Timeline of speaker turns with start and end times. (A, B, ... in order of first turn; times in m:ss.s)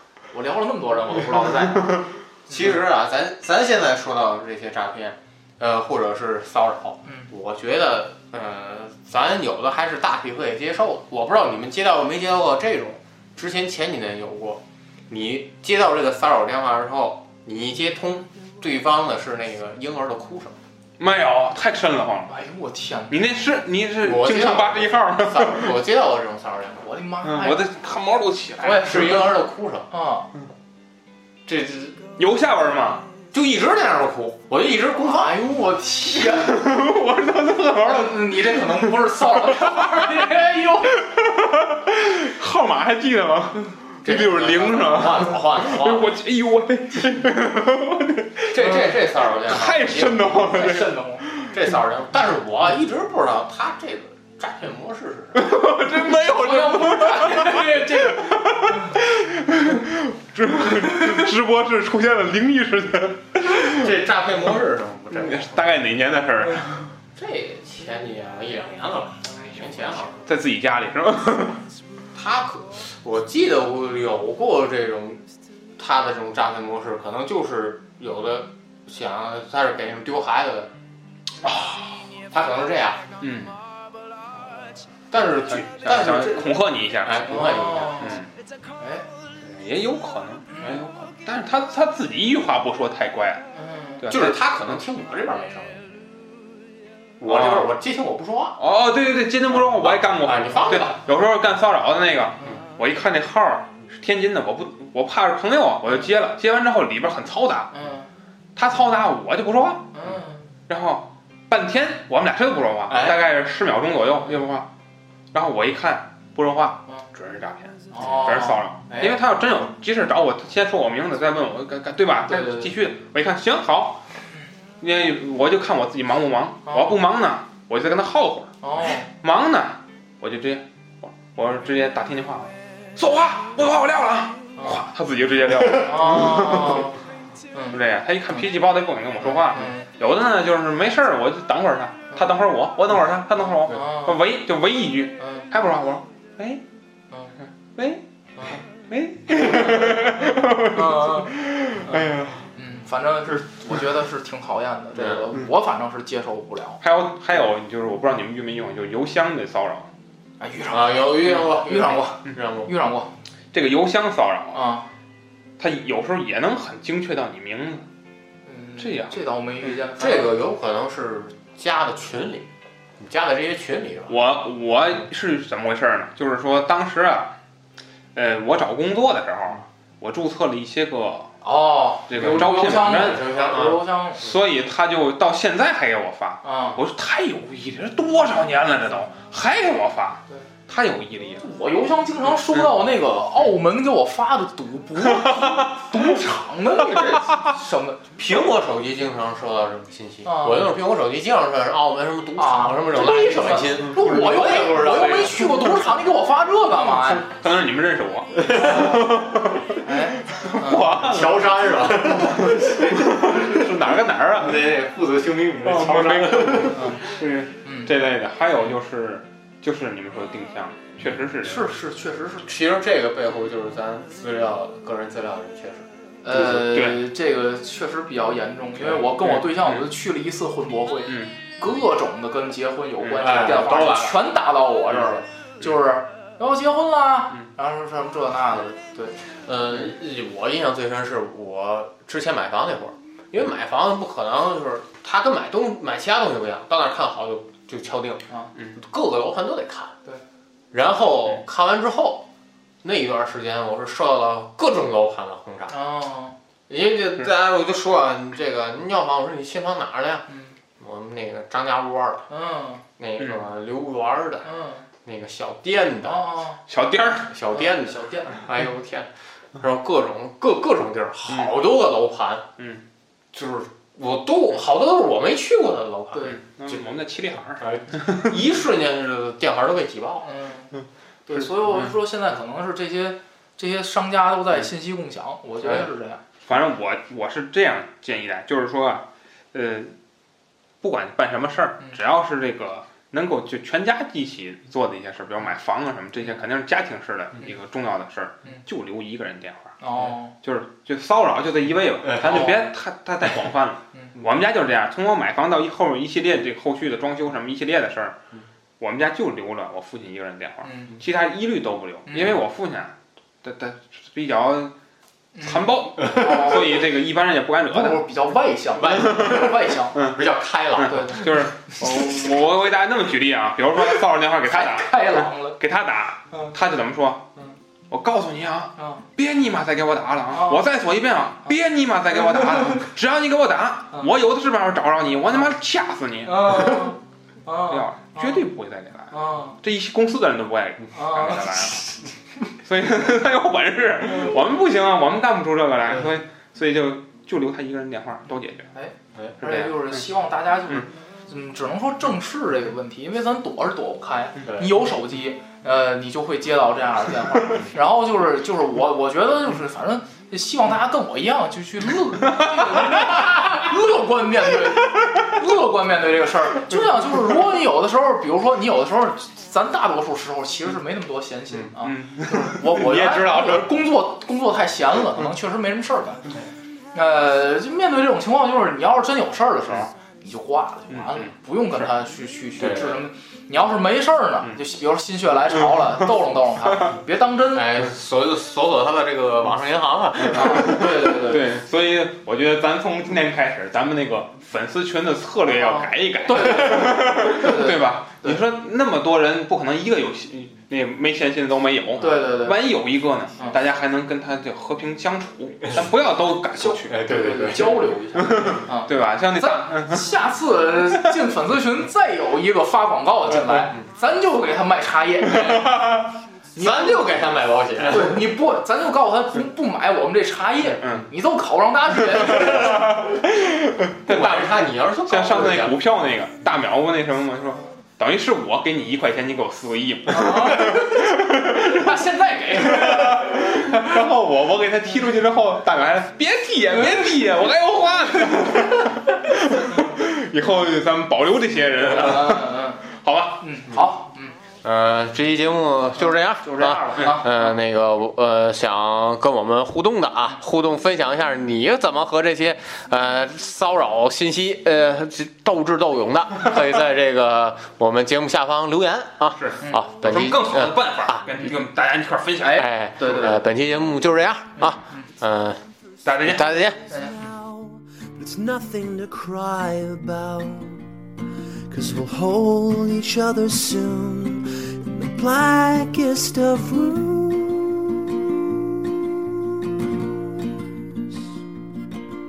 0:00.3-0:01.5 A
0:00.9-0:20.6 B
0:02.5-0:02.8 A
0:21.0-0:22.3 C
0:22.3-0:23.2 A
0:23.1-0:25.8 C
0:24.0-0:26.9 B
0:26.8-0:27.7 A
0:27.2-0:29.3 C
0:28.6-0:29.9 B
0:29.9-0:30.3 A
0:31.5-0:32.0 B
0:32.2-0:33.0 C
0:33.3-0:35.4 B
0:34.9-0:36.7 A
0:36.2-0:51.6 C
0:37.8-0:41.1 A
0:44.0-0:46.2 B
0:48.5-0:50.8 B
0:50.4-0:51.3 A
0:51.5-0:55.6 B
0:55.3-1:03.9 C
0:56.0-0:59.0 A
1:03.6-1:05.8 B
1:05.2-1:06.9 C
1:07.2-1:10.2 B
1:09.6-1:11.6 C
1:12.2-1:15.2 B
1:15.8-1:20.7 B
1:21.4-1:22.0 C
1:22.3-1:23.0 B
1:23.2-1:23.5 C
1:25.1-1:28.2 B
1:25.5-1:28.3 C
1:27.3-1:28.2 A
1:28.8-1:29.1 A
1:29.4-1:33.4 C
1:33.6-1:34.0 A
1:34.0-1:34.8 C
1:34.1-1:35.8 B
1:37.2-1:38.6 B
1:37.2-1:37.8 C
1:38.6-1:47.7 C
1:39.5-1:41.0 B
1:47.7-1:48.1 A
1:48.6-1:50.0 C
1:49.9-1:50.4 A
1:50.7-1:54.7 C
1:52.9-1:53.2 B
1:55.3-2:04.0 C
1:57.9-1:59.2 A
2:02.3-2:02.7 A
2:04.8-2:08.6 C
2:06.7-2:07.0 A
2:08.6-2:09.1 A
2:09.1-2:16.9 C
2:14.6-2:14.8 A
2:15.8-2:17.0 A
2:17.5-2:17.8 A
2:17.7-2:26.6 C
2:19.2-2:19.9 A
2:23.6-2:24.2 A
2:25.2-2:25.5 A
2:27.8-2:28.0 C
2:28.7-2:32.4 C
2:30.2-2:36.8 A
2:35.0-2:35.2 B
2:36.8-2:39.9 C
2:40.4-2:43.1 A
2:40.7-2:42.7 B
2:43.5-2:44.6 C
2:44.5-2:44.9 A
2:45.6-2:47.9 C
2:48.5-2:50.4 A
2:48.8-2:49.7 C
2:49.9-2:54.2 B
2:54.1-2:57.3 C
2:58.2-3:01.3 C
3:01.4-3:04.3 A
3:02.1-3:03.3 C
3:02.2-3:03.8 B
3:04.2-3:11.5 C
3:06.4-3:06.8 A
3:11.4-3:18.0 A
3:15.2-3:15.7 C
3:18.2-3:25.8 B
3:20.2-3:20.7 A
3:22.4-3:27.3 A
3:23.8-3:24.9 C
3:27.2-3:29.8 C
3:28.4-3:28.9 B
3:28.5-3:29.2 A
3:29.8-3:31.1 A
3:30.4-3:34.7 C
3:30.9-3:33.6 B
3:34.4-3:37.5 B
3:35.6-3:37.2 C
3:37.6-3:37.9 A
3:37.8-3:41.7 C
3:41.4-3:42.5 A
3:42.4-3:46.7 B
3:46.2-3:59.2 A
3:46.6-3:47.0 C
3:48.8-3:49.0 B
3:49.2-3:49.9 C
3:53.0-3:53.5 C
3:53.2-3:54.2 B
3:59.4-4:09.9 B
4:10.7-4:12.3 B
4:12.8-4:15.8 B
4:15.7-4:16.4 A
4:16.7-4:20.3 B
4:20.3-4:20.6 A
4:20.8-4:22.3 B
4:22.3-4:22.8 A
4:23.0-4:24.5 B
4:24.4-4:24.8 A
4:25.0-4:26.2 B
4:26.0-4:26.6 A
4:26.7-4:27.3 C
4:27.2-4:32.5 B
4:27.5-4:28.4 A
4:32.6-4:32.8 C
4:33.3-4:37.0 B
4:36.1-4:36.4 A
4:36.3-4:38.3 C
4:37.6-4:40.3 B
4:40.2-4:40.7 A
4:41.3-4:46.2 A
4:41.6-4:41.9 C
4:46.4-4:50.0 C
4:50.8-4:59.8 C
4:59.8-5:00.3 A
5:00.3-5:08.2 C
5:02.0-5:02.6 B
5:02.2-5:02.6 A
5:08.8-5:14.7 C
5:10.6-5:11.0 A
5:12.1-5:12.4 A
5:15.4-5:16.9 A
5:15.4-5:18.1 C
5:17.7-5:20.0 A
5:18.8-5:21.3 B
5:18.8-5:20.2 C
5:20.7-5:27.3 C
5:20.8-5:21.4 A
5:24.5-5:25.6 A
5:27.9-5:36.9 C
5:30.3-5:30.6 A
5:36.2-5:38.5 A
5:37.7-5:41.9 C
5:39.1-5:39.6 A
5:40.9-5:41.8 A
5:42.6-5:48.7 C
5:44.1-5:44.5 A
5:48.8-6:16.3 A
5:49.4-5:50.0 C
5:54.4-5:54.7 B
6:02.7-6:03.2 C
6:11.8-6:13.7 C
6:16.9-6:27.8 A
6:20.9-6:21.3 C
6:22.6-6:23.0 B
6:27.5-6:31.0 B
6:30.2-6:47.1 C
6:30.3-6:31.5 A
6:35.6-6:38.4 A
6:42.0-6:42.6 A
6:46.6-6:56.0 A
6:46.8-6:47.9 B
6:48.2-6:50.1 C
6:55.3-6:56.0 B
6:56.6-6:57.2 A
6:56.6-6:58.2 B
6:57.8-7:03.1 A
7:00.8-7:01.1 C
7:02.2-7:23.4 C
7:04.1-7:05.8 B
7:10.1-7:13.4 A
7:21.8-7:22.8 A
7:23.4-7:24.4 A
7:24.6-7:41.3 B
7:26.4-7:27.5 A
7:39.4-7:43.4 C
7:42.4-7:45.6 B
7:43.0-7:43.3 A
7:44.6-7:45.1 A
7:46.0-7:46.5 C
7:46.2-7:46.8 B
7:46.9-7:50.8 D
7:46.9-7:47.2 A
7:51.7-7:59.1 D
7:59.8-8:00.3 D